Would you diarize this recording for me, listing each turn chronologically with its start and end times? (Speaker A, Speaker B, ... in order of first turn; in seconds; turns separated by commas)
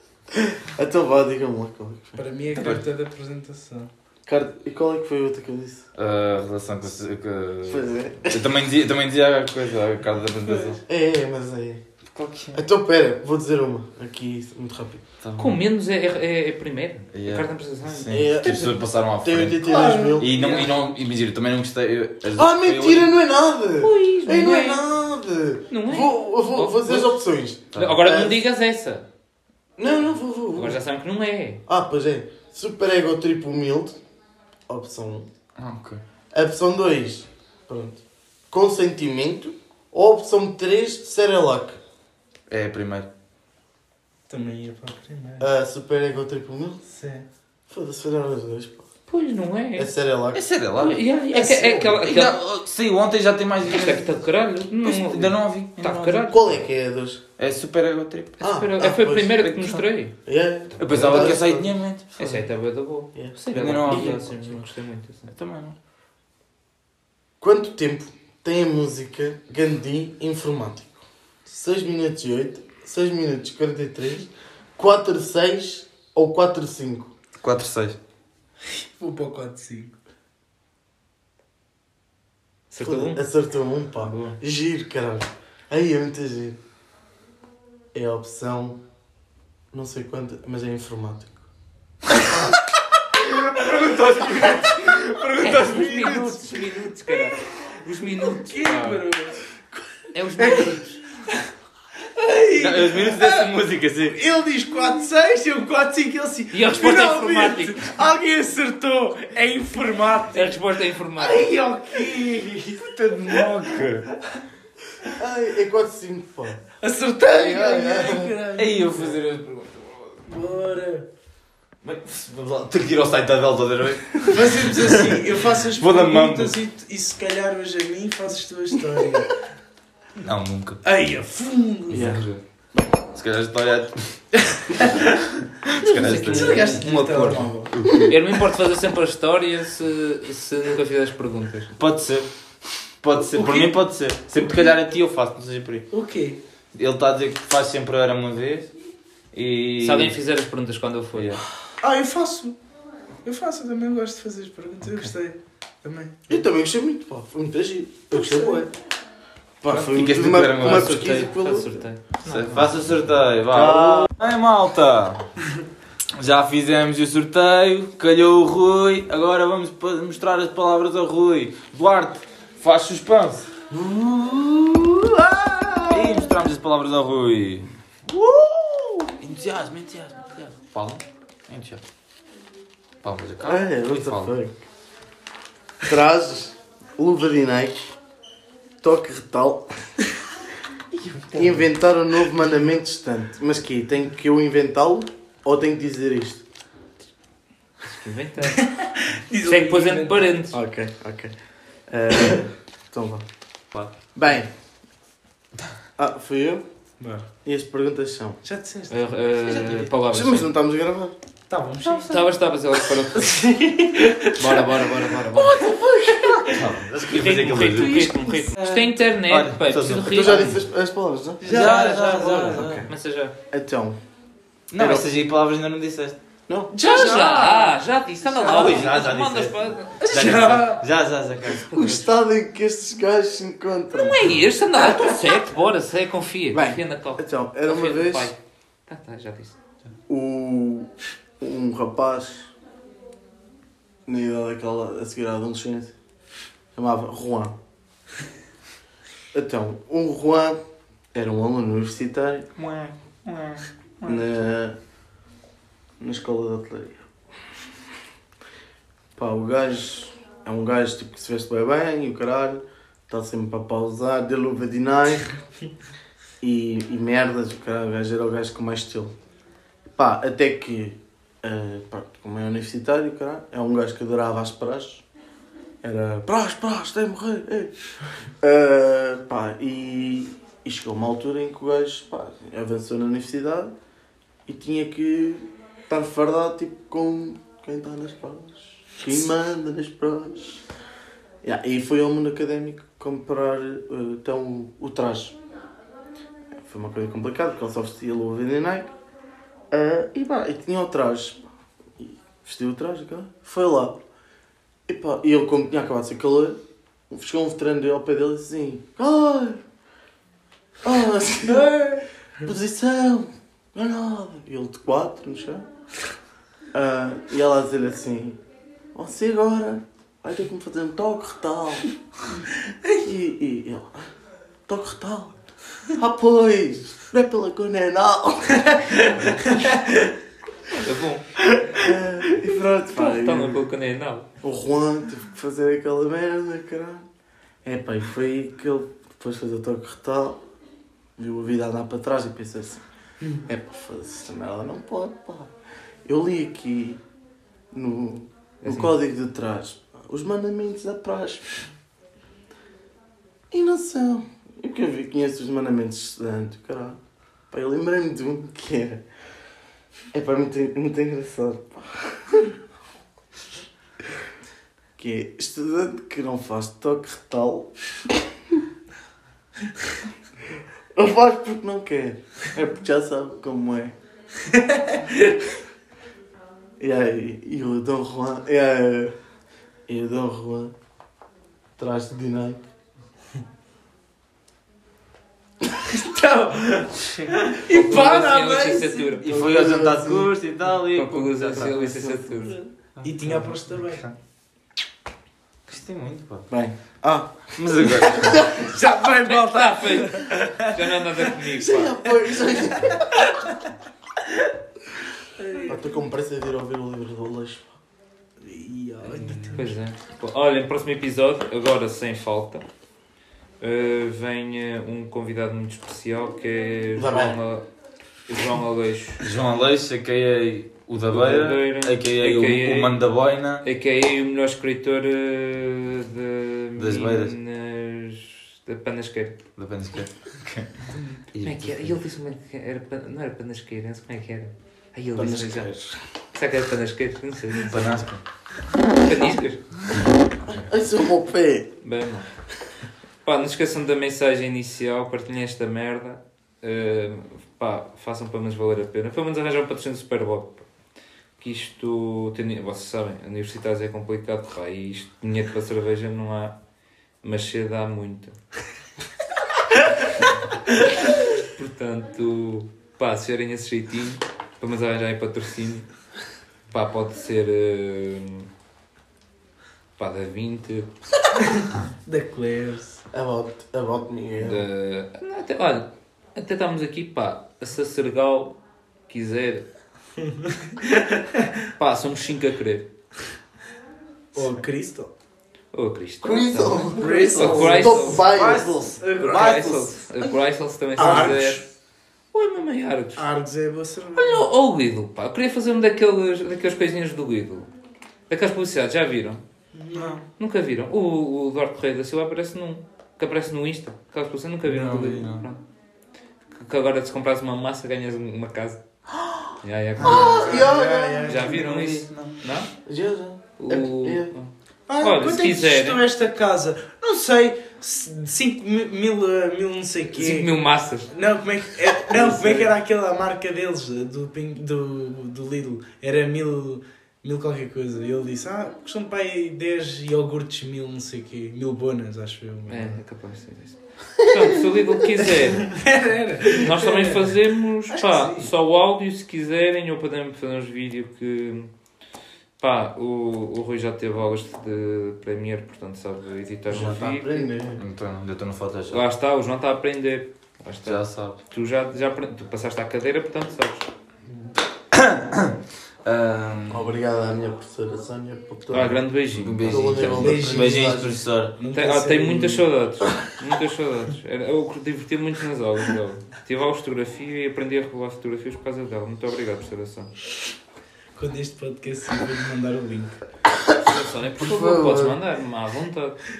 Speaker A: 0.3-2.2, Speaker B: 2.2-3.9, Speaker C: 2.5-2.8, Speaker A: 4.3-5.9, Speaker C: 6.0-10.8, Speaker A: 7.7-8.5, Speaker B: 10.4-10.8, Speaker A: 10.9-11.8, Speaker C: 12.1-12.6, Speaker A: 12.5-15.0, Speaker C: 15.2-15.6, Speaker D: 15.4-18.4, Speaker C: 17.1-23.1, Speaker A: 18.1-20.7, Speaker B: 19.6-20.7, Speaker A: 22.4-28.4, Speaker D: 23.8-24.8, Speaker D: 25.7-27.2, Speaker C: 27.8-28.1, Speaker D: 27.8-29.1, Speaker A: 29.8-30.8, Speaker D: 30.6-31.6, Speaker A: 31.7-34.0, Speaker A: 34.7-35.3, Speaker C: 35.6-36.0, Speaker A: 36.3-41.8, Speaker C: 42.5-43.1, Speaker B: 44.3-45.5, Speaker A: 45.4-46.8, Speaker B: 46.9-47.3, Speaker A: 47.7-48.9, Speaker D: 49.1-49.9, Speaker A: 49.8-50.4, Speaker C: 50.3-51.0, Speaker D: 50.8-52.4, Speaker A: 51.4-52.0, Speaker C: 51.7-54.2, Speaker D: 53.7-56.6, Speaker C: 54.8-56.3, Speaker A: 56.3-57.2, Speaker C: 57.4-58.4, Speaker A: 58.4-59.4, Speaker D: 58.4-60.1, Speaker C: 59.4-59.8, Speaker A: 60.2-61.7, Speaker C: 60.8-62.4, Speaker D: 62.2-65.3, Speaker A: 63.1-64.2, Speaker C: 63.5-64.5, Speaker C: 65.3-65.8, Speaker A: 67.4-77.1, Speaker C: 77.4-78.0, Speaker B: 78.7-79.9, Speaker D: 82.7-83.2, Speaker A: 82.8-86.6, Speaker D: 84.1-84.3, Speaker A: 87.9-88.8, Speaker A: 89.7-91.4, Speaker C: 93.1-96.4, Speaker D: 95.4-99.1, Speaker B: 98.2-99.4, Speaker D: 100.1-101.0, Speaker A: 100.4-100.7, Speaker B: 102.1-103.5, Speaker C: 102.6-104.2, Speaker B: 104.0-110.6, Speaker D: 106.5-107.9, Speaker D: 110.3-111.5, Speaker B: 111.2-113.8, Speaker C: 112.8-114.1, Speaker A: 115.2-116.6, Speaker B: 116.8-119.2, Speaker A: 117.2-118.4, Speaker C: 118.6-120.2, Speaker B: 120.3-121.1, Speaker C: 121.8-126.6, Speaker B: 124.3-129.3, Speaker C: 130.2-130.8, Speaker B: 130.8-132.2, Speaker C: 131.9-132.4, Speaker A: 131.9-132.2, Speaker C: 133.1-135.1, Speaker B: 134.7-135.0, Speaker C: 135.7-136.8, Speaker B: 135.8-137.8, Speaker D: 135.8-141.7, Speaker C: 137.7-138.1, Speaker C: 141.8-142.3, Speaker C: 143.0-145.9, Speaker B: 143.2-143.8, Speaker B: 144.4-144.7, Speaker B: 145.9-146.4, Speaker C: 146.7-148.7, Speaker C: 149.3-150.2, Speaker D: 149.8-151.4, Speaker C: 151.2-151.4, Speaker B: 151.8-152.6, Speaker B: 153.2-156.3, Speaker A: 156.3-158.7, Speaker B: 158.1-158.7, Speaker A: 159.6-161.8, Speaker C: 159.7-161.3, Speaker D: 160.6-162.7, Speaker C: 162.2-165.3, Speaker A: 163.5-164.1, Speaker C: 166.2-173.5, Speaker A: 173.7-176.3, Speaker C: 175.9-177.7, Speaker A: 178.1-179.1, Speaker C: 179.2-181.8, Speaker C: 183.0-184.3, Speaker A: 183.4-184.6, Speaker A: 185.8-187.9, Speaker A: 188.8-189.9, Speaker A: 191.3-196.4, Speaker D: 197.8-198.7, Speaker B: 198.5-200.2, Speaker D: 199.4-200.6, Speaker A: 200.5-201.3, Speaker A: 201.9-203.3, Speaker A: 204.1-204.5, Speaker A: 206.0-206.7, Speaker B: 207.0-207.3, Speaker A: 207.4-208.4, Speaker B: 208.4-209.9, Speaker D: 208.9-210.5, Speaker A: 210.1-211.2, Speaker B: 211.5-212.1, Speaker C: 211.8-212.2, Speaker D: 212.1-213.4, Speaker B: 213.2-214.7, Speaker D: 214.4-215.6, Speaker A: 215.4-216.7, Speaker B: 215.4-216.6, Speaker C: 216.5-218.1, Speaker D: 217.2-220.6, Speaker B: 217.8-218.8, Speaker C: 219.0-220.6, Speaker A: 220.1-221.5, Speaker B: 221.4-222.8, Speaker C: 221.4-222.9, Speaker D: 221.5-222.2, Speaker A: 222.5-222.9, Speaker D: 222.9-223.3, Speaker A: 223.5-224.0, Speaker C: 224.7-226.2, Speaker A: 224.8-225.1, Speaker B: 226.7-227.8, Speaker D: 226.7-230.4, Speaker C: 228.4-231.9, Speaker B: 230.0-230.8, Speaker A: 231.6-234.4, Speaker D: 231.7-232.1, Speaker D: 233.9-239.6, Speaker A: 236.5-238.3, Speaker A: 240.1-242.5, Speaker A: 244.1-245.9, Speaker A: 246.7-247.6, Speaker A: 249.3-250.6, Speaker A: 251.1-252.5, Speaker C: 252.6-254.3, Speaker A: 254.1-254.8, Speaker A: 256.0-257.0, Speaker A: 259.1-265.4, Speaker A: 266.4-269.1, Speaker A: 270.0-275.1, Speaker A: 275.8-277.8, Speaker A: 278.4-283.7, Speaker A: 284.5-290.6, Speaker A: 291.4-295.4, Speaker A: 296.6-298.9, Speaker A: 299.7-301.4, Speaker A: 302.0-304.0, Speaker A: 304.9-306.6, Speaker A: 307.1-309.6, Speaker A: 310.8-315.7, Speaker B: 311.5-312.0, Speaker A: 316.7-318.4, Speaker A: 318.9-321.9, Speaker A: 322.9-324.1, Speaker A: 324.7-329.2, Speaker B: 328.8-330.1, Speaker D: 330.7-331.3, Speaker A: 331.8-333.6, Speaker D: 332.9-334.3, Speaker A: 334.4-337.1, Speaker A: 337.6-340.4, Speaker A: 341.2-342.8, Speaker A: 343.4-345.5, Speaker A: 346.1-347.0, Speaker A: 347.7-351.6, Speaker D: 348.6-348.9, Speaker A: 353.5-357.0, Speaker A: 357.5-359.0, Speaker A: 360.1-362.5, Speaker A: 365.0-368.2, Speaker A: 370.9-373.9, Speaker B: 374.5-375.3, Speaker A: 376.8-379.2, Speaker A: 379.9-380.7, Speaker A: 381.8-382.6, Speaker B: 385.8-389.2, Speaker D: 387.7-389.3, Speaker A: 389.2-390.3, Speaker C: 389.2-391.8, Speaker D: 390.9-392.6, Speaker A: 391.7-392.7, Speaker C: 393.0-394.1, Speaker B: 393.0-394.0, Speaker C: 395.7-396.5, Speaker A: 396.5-398.8, Speaker C: 397.6-398.5, Speaker B: 398.5-401.0, Speaker D: 399.2-402.0, Speaker A: 401.6-403.3, Speaker B: 405.4-406.0, Speaker A: 405.6-407.8, Speaker B: 408.4-409.7, Speaker C: 409.1-409.6, Speaker D: 409.5-412.6, Speaker D: 413.6-417.7, Speaker A: 417.0-417.4, Speaker D: 418.3-419.3, Speaker C: 419.2-423.6, Speaker D: 421.1-423.1, Speaker D: 423.6-429.4, Speaker C: 426.8-427.4, Speaker C: 429.6-432.0, Speaker D: 431.4-435.7, Speaker A: 435.2-436.0, Speaker D: 436.3-437.9, Speaker C: 437.7-438.2, Speaker D: 438.9-439.7, Speaker C: 439.9-440.6, Speaker A: 440.5-441.7, Speaker D: 441.8-442.3, Speaker D: 443.2-450.7, Speaker D: 451.4-456.6, Speaker D: 457.2-458.4, Speaker D: 461.1-465.9, Speaker D: 466.7-468.5, Speaker D: 470.0-470.9, Speaker B: 471.6-473.0, Speaker A: 473.1-474.7, Speaker D: 474.4-478.6, Speaker D: 479.1-479.7, Speaker B: 480.2-481.5, Speaker D: 481.8-482.9, Speaker B: 484.3-485.1, Speaker D: 485.7-488.3, Speaker A: 486.2-488.8, Speaker C: 486.9-488.0, Speaker B: 487.0-490.0, Speaker D: 489.2-491.7, Speaker A: 491.0-491.4, Speaker B: 491.0-491.6, Speaker D: 492.3-493.3, Speaker B: 493.2-494.5, Speaker D: 494.1-497.7, Speaker D: 498.3-499.4, Speaker B: 499.7-500.2, Speaker C: 499.9-500.2, Speaker D: 500.4-505.6, Speaker C: 504.6-505.5, Speaker D: 506.5-508.8, Speaker D: 509.6-510.7, Speaker C: 510.0-510.4, Speaker A: 510.0-511.6, Speaker B: 510.1-511.7, Speaker D: 511.3-512.7, Speaker C: 511.5-512.4, Speaker A: 512.9-514.3, Speaker D: 513.6-516.0, Speaker B: 514.9-520.5, Speaker D: 520.1-521.1, Speaker B: 521.1-533.0, Speaker A: 522.1-522.7, Speaker D: 532.7-535.7, Speaker B: 535.2-537.4, Speaker D: 536.5-541.7, Speaker B: 537.9-538.5, Speaker D: 542.6-547.5, Speaker A: 546.7-547.8, Speaker C: 547.8-549.0, Speaker D: 548.9-553.9, Speaker C: 550.8-551.4, Speaker C: 554.9-556.9, Speaker A: 556.7-559.0, Speaker D: 558.7-560.3, Speaker C: 559.3-561.6, Speaker A: 559.6-561.2, Speaker B: 560.2-561.0, Speaker B: 561.6-562.6, Speaker D: 561.7-570.1, Speaker B: 571.2-573.2, Speaker D: 573.8-576.2, Speaker A: 574.4-575.2